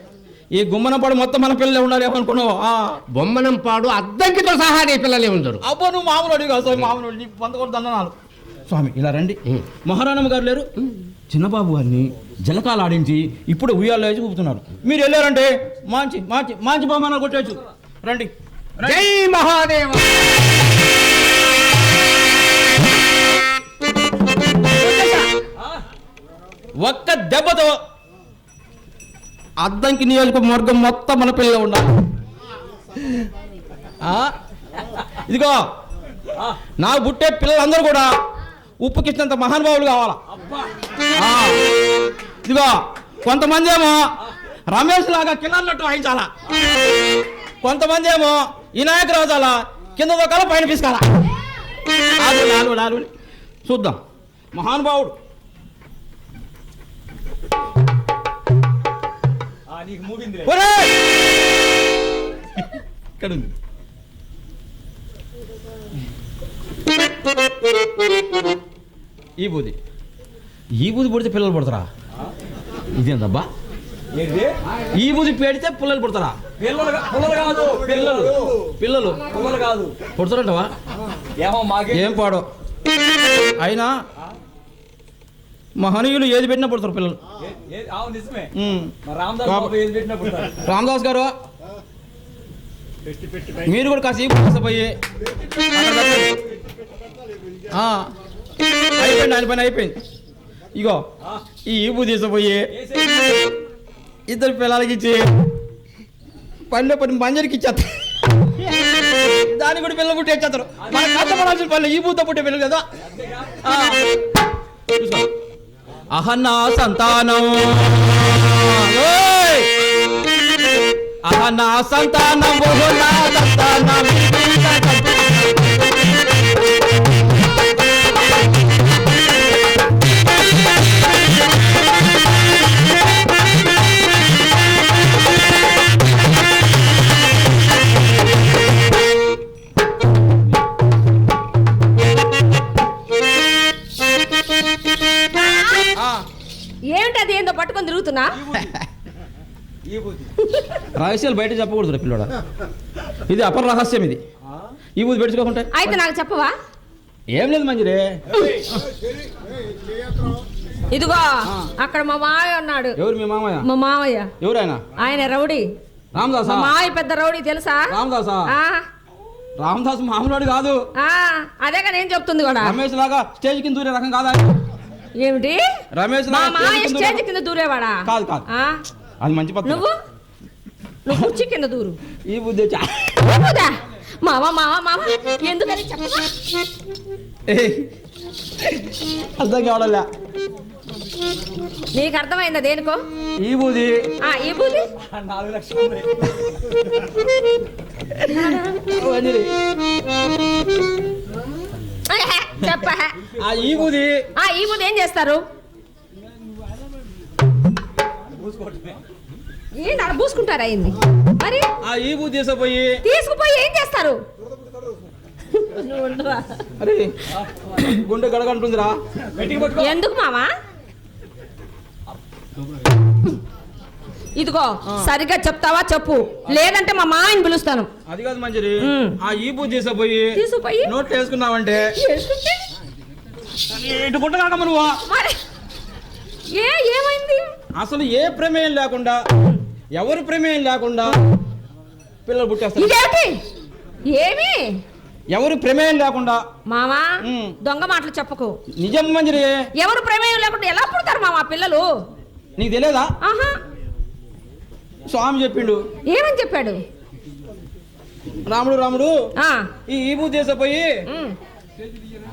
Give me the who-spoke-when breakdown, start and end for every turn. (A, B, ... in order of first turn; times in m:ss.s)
0:00.5-0:03.0 A
0:03.1-0:05.6 B
0:05.6-0:08.1 A
0:08.7-0:10.7 A
0:11.3-0:19.0 A
0:18.8-0:20.4 B
0:26.8-0:27.8 A
0:29.6-0:31.9 A
0:34.0-0:34.3 A
0:35.1-0:35.6 A
0:36.8-0:38.1 A
0:38.8-0:40.2 A
0:40.3-0:40.7 C
0:41.2-0:41.6 A
0:42.4-0:44.0 A
0:44.7-0:46.3 A
0:47.6-0:51.0 A
0:52.2-0:53.1 A
0:53.6-0:54.0 A
0:54.5-0:55.2 A
0:59.7-1:00.4 C
1:00.4-1:00.9 A
1:03.2-1:03.5 A
1:09.4-1:09.8 A
1:10.8-1:11.9 A
1:13.0-1:13.5 A
1:14.1-1:14.5 C
1:14.9-1:16.4 A
1:16.6-1:18.0 C
1:17.6-1:19.3 A
1:19.3-1:20.0 C
1:20.0-1:20.7 A
1:21.4-1:22.0 C
1:21.9-1:22.4 A
1:23.6-1:23.9 A
1:25.8-1:27.2 A
1:27.5-1:28.5 C
1:28.5-1:29.8 A
1:29.0-1:30.6 C
1:30.6-1:31.3 A
1:33.6-1:34.9 A
1:35.7-1:36.3 A
1:37.7-1:38.0 A
1:39.0-1:40.0 A
1:40.8-1:41.0 A
1:41.6-1:42.7 A
1:42.8-1:43.4 C
1:44.3-1:45.2 A
1:46.7-1:47.9 A
1:49.1-1:52.8 A
1:53.0-1:53.6 C
1:53.6-1:54.0 A
1:55.0-1:55.3 A
1:56.1-1:59.7 A
2:01.2-2:05.4 A
2:25.4-2:25.9 D
2:25.9-2:26.2 A
2:26.9-2:28.4 D
2:29.9-2:30.3 C
2:30.4-2:30.8 D
2:30.9-2:32.3 A
2:33.3-2:34.2 A
2:35.0-2:35.9 A
2:35.7-2:36.5 D
2:37.3-2:38.2 A
2:40.9-2:43.0 D
2:43.0-2:43.6 A
2:43.6-2:44.3 D
2:44.4-2:44.8 A
2:45.0-2:45.7 D
2:46.1-2:46.7 A
2:46.4-2:47.9 D
2:47.9-2:48.5 A
2:48.5-2:48.8 D
2:49.6-2:50.8 A
2:51.0-2:52.8 D
2:52.6-2:54.5 A
2:55.2-2:55.6 D
2:55.9-2:57.2 A
2:56.3-2:58.8 D
2:58.0-2:58.4 A
2:59.2-2:59.8 A
2:59.6-2:59.9 D
3:01.0-3:02.0 D
3:02.3-3:03.2 A
3:03.2-3:06.3 D
3:07.5-3:07.9 A
3:08.6-3:10.0 A
3:11.9-3:13.0 D
3:13.4-3:14.1 A
3:14.2-3:14.9 D
3:15.0-3:16.3 C
3:18.2-3:19.5 A
3:18.3-3:18.7 D
3:22.1-3:23.2 D
3:23.4-3:24.2 A
3:24.4-3:25.4 D
3:28.3-3:29.0 C
3:29.8-3:31.7 D
3:31.8-3:33.0 A
3:33.0-3:34.2 D
3:35.5-3:36.6 D
3:36.8-3:37.1 A
3:37.8-3:39.0 A
3:39.2-3:39.8 C
3:39.6-3:40.5 D
3:44.4-3:47.9 D
3:48.1-3:51.9 A
3:48.8-3:49.2 D
3:50.4-3:50.9 D
3:52.0-3:52.6 D
3:53.7-3:55.0 A
3:55.1-3:55.4 D
3:56.5-3:57.5 D
3:57.8-3:59.2 A
4:00.0-4:01.2 A
4:02.2-4:02.9 A
4:02.8-4:03.4 D
4:04.1-4:04.7 D
4:05.3-4:06.4 A
4:06.7-4:07.1 D
4:07.2-4:07.6 A
4:07.6-4:08.6 D
4:08.8-4:09.6 A
4:09.8-4:11.9 D
4:12.6-4:13.1 A
4:13.2-4:13.6 D
4:15.0-4:15.8 A
4:16.1-4:16.8 D
4:18.5-4:19.2 A
4:19.4-4:19.7 D
4:19.9-4:21.0 A
4:21.1-4:21.4 D